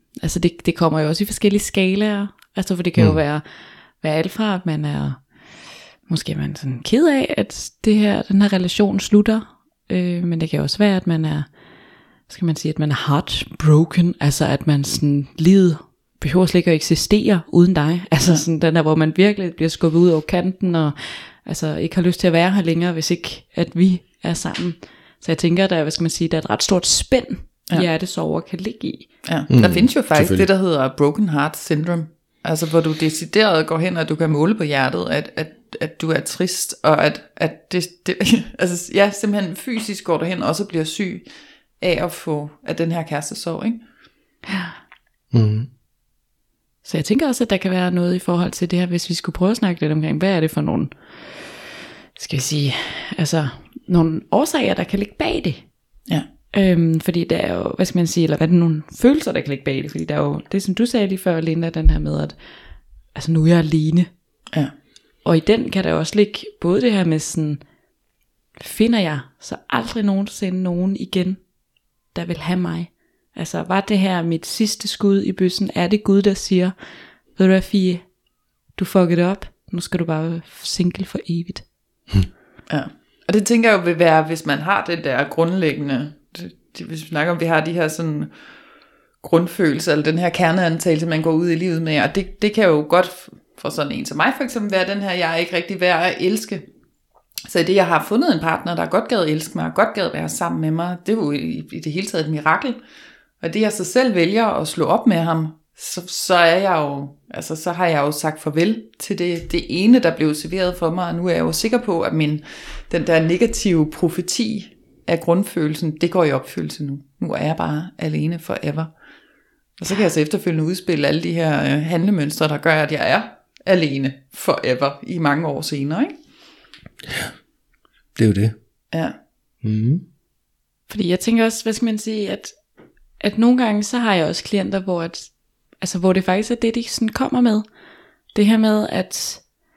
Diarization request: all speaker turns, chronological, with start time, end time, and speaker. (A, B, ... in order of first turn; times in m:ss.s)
0:00.2-0:03.4 A
0:04.0-0:05.2 A
0:06.1-0:11.5 A
0:12.3-0:29.1 A
0:29.2-0:41.2 B
0:29.5-0:30.4 C
0:41.8-0:43.8 B
0:45.3-0:45.7 C
0:46.8-0:55.7 A
0:56.5-1:02.4 A
1:03.1-1:04.1 A
1:05.2-1:07.6 A
1:08.6-1:11.4 A
1:12.1-1:16.7 A
1:17.3-1:18.1 A
1:18.8-1:21.6 A
1:22.7-1:28.3 B
1:29.2-1:36.7 B
1:37.4-1:42.8 B
1:43.4-1:58.9 B
1:59.8-2:06.1 B
2:07.0-2:07.3 C
2:08.2-2:08.6 C
2:09.6-2:10.0 C
2:10.9-2:12.6 A
2:13.2-2:17.6 A
2:18.3-2:19.4 A